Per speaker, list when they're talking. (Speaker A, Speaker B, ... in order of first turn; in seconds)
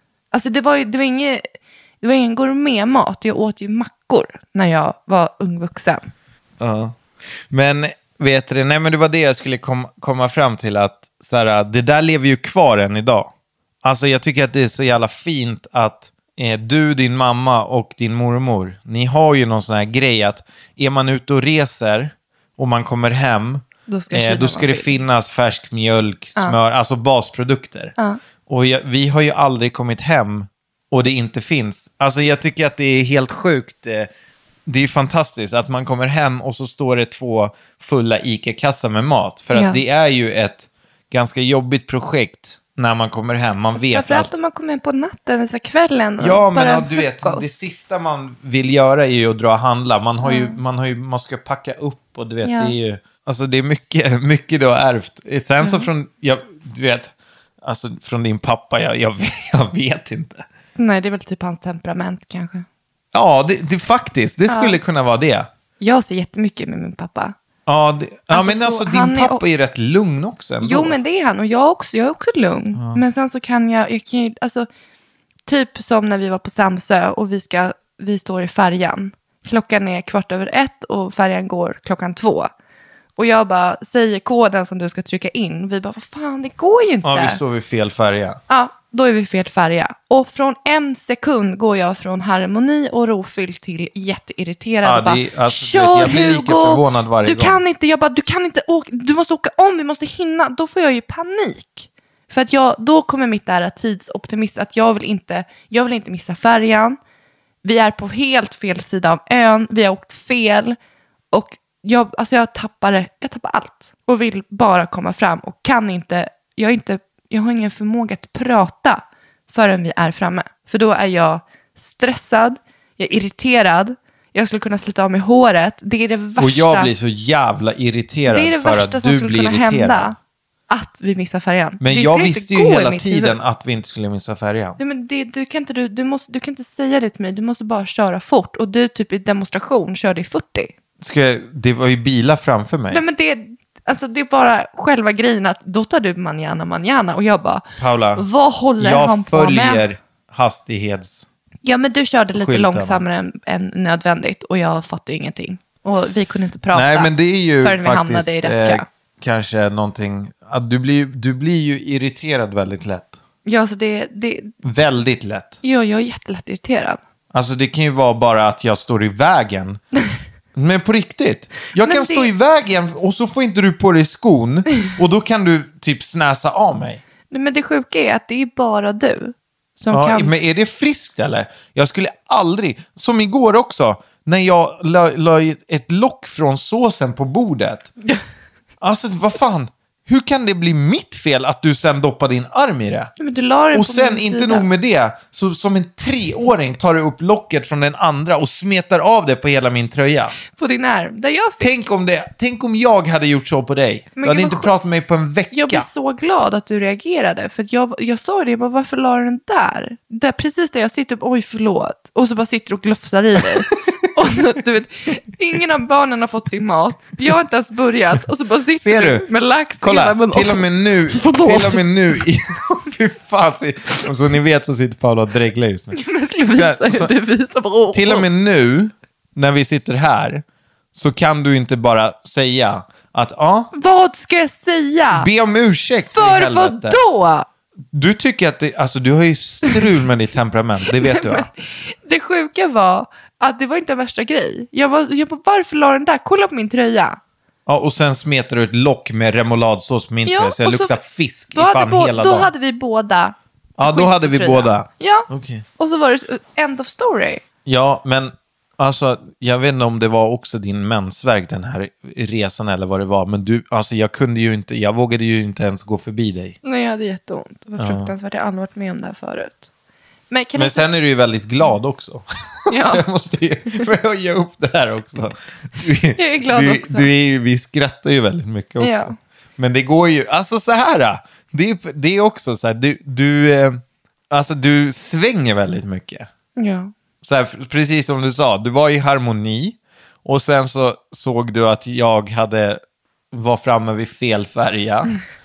Speaker A: 0.3-1.5, 2.0-6.1, 23.9-24.9, 39.5-39.8, 43.8-47.6, 50.2-50.6, 52.4-52.8, 55.6-55.9, 60.8-62.7, 64.5-64.8, 65.8-67.3, 68.3-69.4, 70.6-74.7, 75.5-82.5, 83.2-87.4, 88.5-107.0, 107.6-110.8, 111.3-126.9, 128.3-130.2, 130.7-133.4, 134.8-140.7, 142.9-147.6, 148.2-149.9, 151.7-158.9, 163.4-164.5, 165.6-167.0, 171.8-172.3, 177.3-180.3, 193.2-194.7, 200.5-201.8, 204.2-204.7, 205.5-222.2, 225.9-228.3, 233.7-235.3, 236.0-237.5, 241.0-247.2, 250.3-251.0, 251.5-257.4, 266.6-269.7, 270.3-270.9, 272.7-273.0, 276.1-277.1, 278.8-279.1, 286.6-286.9
Speaker B: 6.6-7.0, 7.5-13.3, 13.8-27.9, 28.5-34.1, 34.7-44.4, 46.2-60.5, 63.1-65.5, 67.7-71.0, 72.8-73.0, 87.0-88.4, 94.8-97.6, 126.4-130.2, 131.8-134.8, 141.0-143.0, 147.8-148.3, 148.8-151.3, 152.3-153.0, 156.7-163.2, 164.6-165.6, 167.3-169.8, 170.5-177.0, 179.9-187.9, 188.8-193.1, 193.7-200.4, 201.6-205.9, 218.7-219.3, 219.8-226.0, 226.6-227.1, 227.9-230.4, 230.9-233.7, 235.1-237.0, 237.9-241.5, 247.7-252.5, 253.8-255.7, 257.6-266.6, 267.8-268.1, 270.6-286.3, 287.2-292.8, 293.3-295.2